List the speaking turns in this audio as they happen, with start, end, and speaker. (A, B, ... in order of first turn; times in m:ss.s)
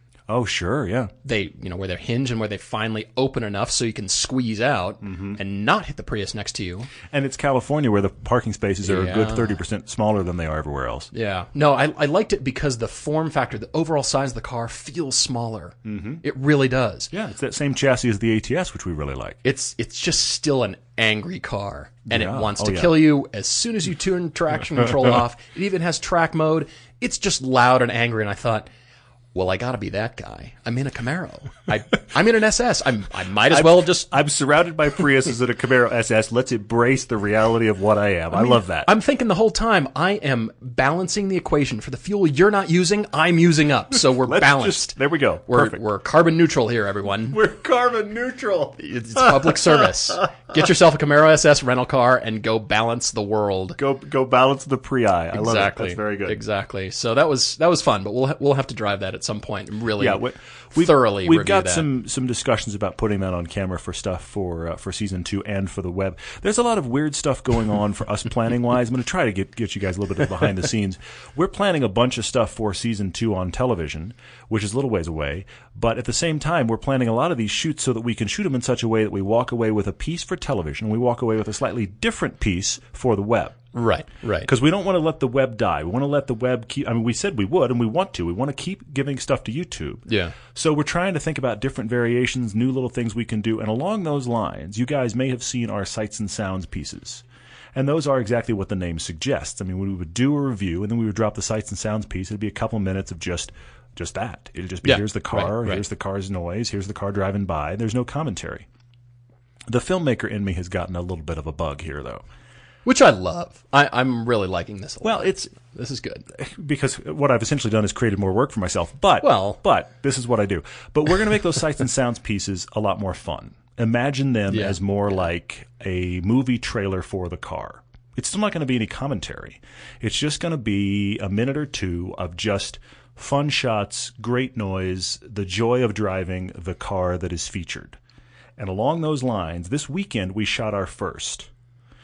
0:00.3-0:01.1 A
0:01.2-0:06.9 B
0:05.0-0:05.4 A
0:07.1-0:11.1 A
0:08.8-0:09.6 B
0:11.1-0:17.1 B
0:15.8-0:16.2 A
0:17.1-0:19.4 A
0:19.4-0:28.7 B
0:22.1-0:23.0 A
0:29.3-0:34.1 B
0:33.5-0:38.9 A
0:38.3-0:45.0 B
0:44.2-0:45.8 A
0:45.5-0:47.4 B
0:47.3-0:50.1 A
0:48.8-0:53.8 B
0:53.8-0:56.4 A
0:55.3-1:00.2 B
1:00.0-1:23.6 A
1:00.8-1:01.9 B
1:23.7-1:24.5 B
1:24.4-1:37.2 A
1:30.1-1:30.4 B
1:37.8-1:48.7 A
1:44.8-1:45.8 B
1:49.7-1:52.2 A
1:52.8-1:56.3 B
1:55.0-1:55.5 A
1:56.3-2:18.0 A
1:59.2-1:59.6 B
2:04.5-2:04.8 B
2:18.6-2:21.5 A